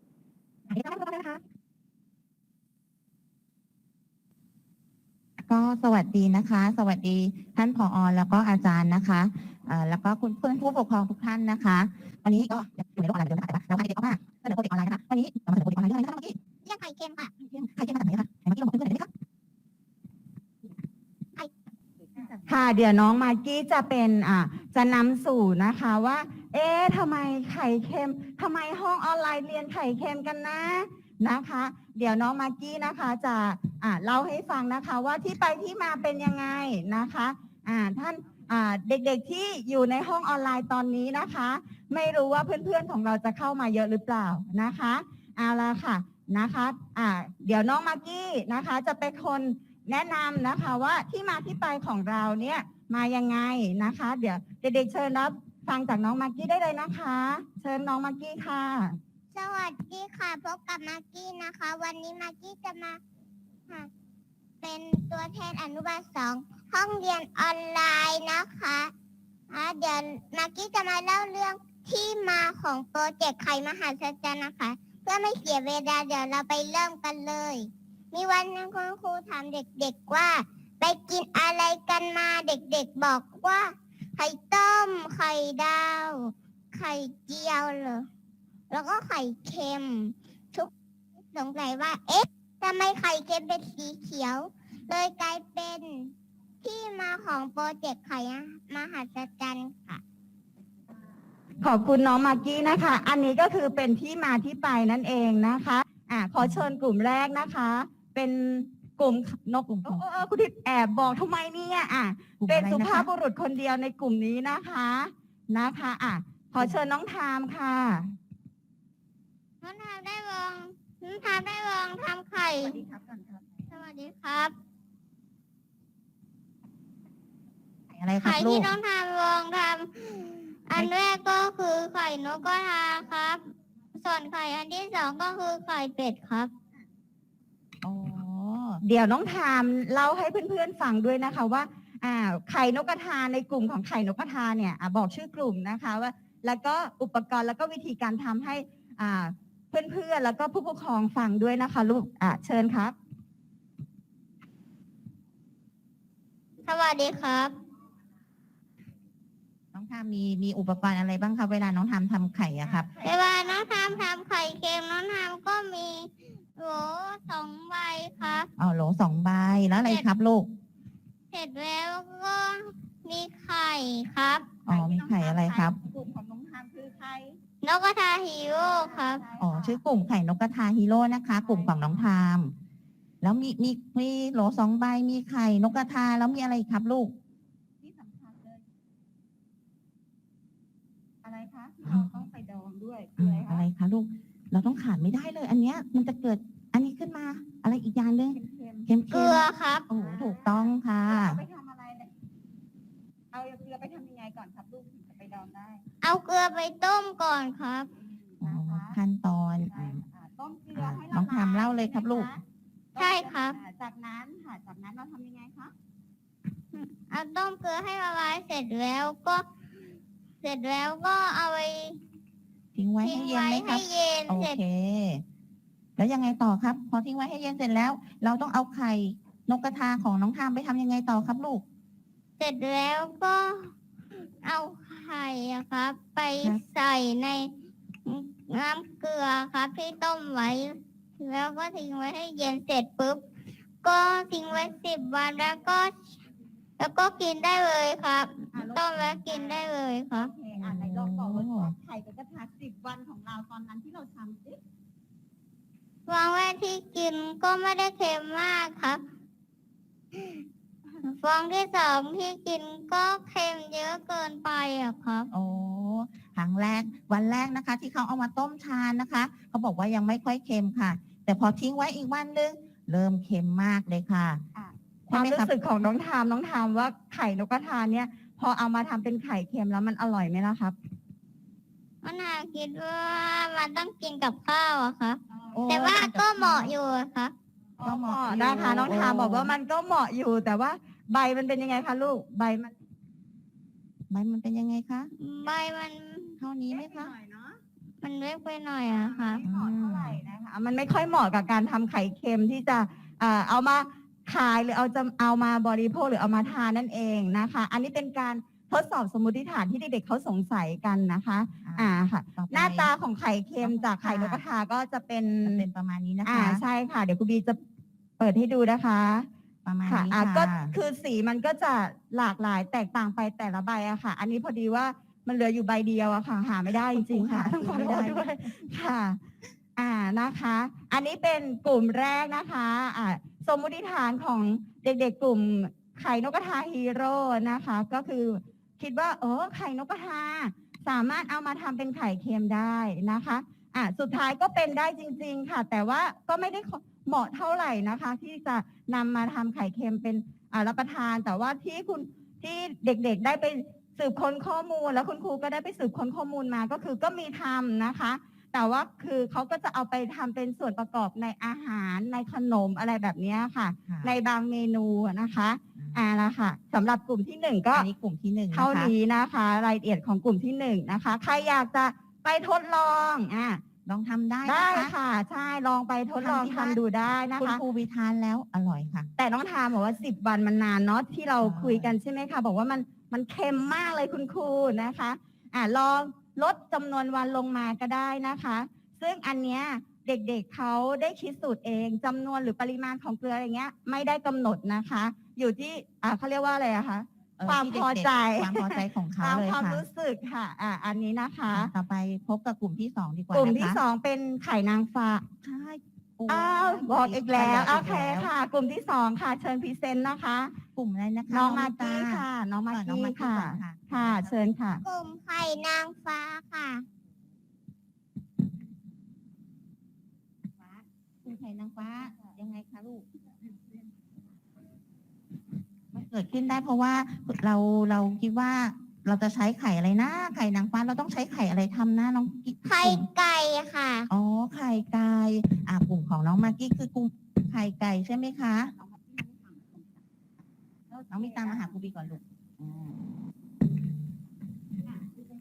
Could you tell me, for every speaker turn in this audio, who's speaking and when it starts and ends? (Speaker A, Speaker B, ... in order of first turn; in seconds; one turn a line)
Speaker A: 0.7-1.4
Speaker A: 5.5-16.4
Speaker B: 16.6-17.3
Speaker A: 17.4-19.1
Speaker C: 22.5-59.0
Speaker B: 59.3-63.0
Speaker B: 64.6-68.9
Speaker B: 69.5-88.1
Speaker B: 88.7-90.7
Speaker B: 91.3-100.0
Speaker C: 101.6-118.2
Speaker A: 106.4-106.7
Speaker A: 109.7-110.0
Speaker A: 112.4-113.1
Speaker B: 119.6-122.8
Speaker C: 122.6-123.8
Speaker B: 123.7-124.5
Speaker A: 127.9-128.8
Speaker B: 128.2-133.4
Speaker B: 133.9-136.5
Speaker A: 137.8-138.8
Speaker C: 138.8-153.0
Speaker B: 156.7-157.5
Speaker A: 159.7-162.9
Speaker C: 162.6-164.1
Speaker B: 163.0-168.5
Speaker A: 168.6-170.5
Speaker B: 171.3-174.5
Speaker A: 174.7-175.8
Speaker C: 174.7-177.4
Speaker B: 177.6-179.2
Speaker C: 178.5-179.8
Speaker A: 179.4-182.5
Speaker C: 181.4-182.1
Speaker A: 183.2-187.1
Speaker C: 187.8-188.6
Speaker C: 191.2-193.7
Speaker A: 193.2-201.4
Speaker C: 198.3-198.9
Speaker B: 199.1-199.8
Speaker C: 199.9-202.1
Speaker C: 203.3-205.8
Speaker B: 206.0-207.9
Speaker C: 208.0-209.0
Speaker A: 208.4-210.0
Speaker C: 209.7-212.4
Speaker A: 210.7-212.3
Speaker C: 212.9-215.7
Speaker B: 213.0-213.6
Speaker B: 216.7-219.5
Speaker B: 220.4-222.0
Speaker A: 222.8-225.2
Speaker B: 223.0-224.6
Speaker A: 226.0-231.6
Speaker B: 232.4-237.5
Speaker B: 238.1-243.2
Speaker B: 243.8-245.9
Speaker B: 246.8-250.3
Speaker C: 248.5-254.6
Speaker A: 250.6-251.8
Speaker B: 256.1-259.0
Speaker B: 260.1-260.4
Speaker B: 261.0-265.3
Speaker A: 265.3-274.4
Speaker C: 274.6-280.8
Speaker A: 275.1-275.5
Speaker B: 282.0-287.3
Speaker A: 285.5-286.7
Speaker C: 287.8-292.7
Speaker A: 287.8-289.5
Speaker A: 294.1-295.1
Speaker B: 295.2-296.4
Speaker A: 296.4-297.1
Speaker C: 296.7-297.6
Speaker B: 298.0-299.4
Speaker C: 298.9-315.7
Speaker A: 299.4-300.2
Speaker A: 311.6-312.9
Speaker A: 313.6-314.4
Speaker A: 315.4-316.6
Speaker C: 316.2-317.6
Speaker C: 318.2-319.3
Speaker A: 319.6-320.7
Speaker C: 319.9-329.2
Speaker A: 326.9-328.5
Speaker C: 329.8-367.9
Speaker A: 363.9-364.2
Speaker A: 365.8-366.0
Speaker A: 367.7-368.9
Speaker C: 368.5-373.6
Speaker A: 373.9-374.9
Speaker C: 374.4-377.6
Speaker A: 376.2-376.8
Speaker A: 377.4-379.1
Speaker C: 379.2-401.7
Speaker A: 381.4-381.9
Speaker A: 397.4-399.9
Speaker A: 401.5-403.8
Speaker C: 403.3-405.3
Speaker A: 405.4-408.3
Speaker C: 406.3-410.5
Speaker A: 410.8-414.4
Speaker C: 411.3-414.8
Speaker B: 414.8-416.9
Speaker A: 421.2-423.1
Speaker A: 425.9-433.1
Speaker B: 432.6-434.1
Speaker A: 434.1-438.7
Speaker C: 438.8-440.0
Speaker C: 440.9-441.8
Speaker A: 441.1-443.2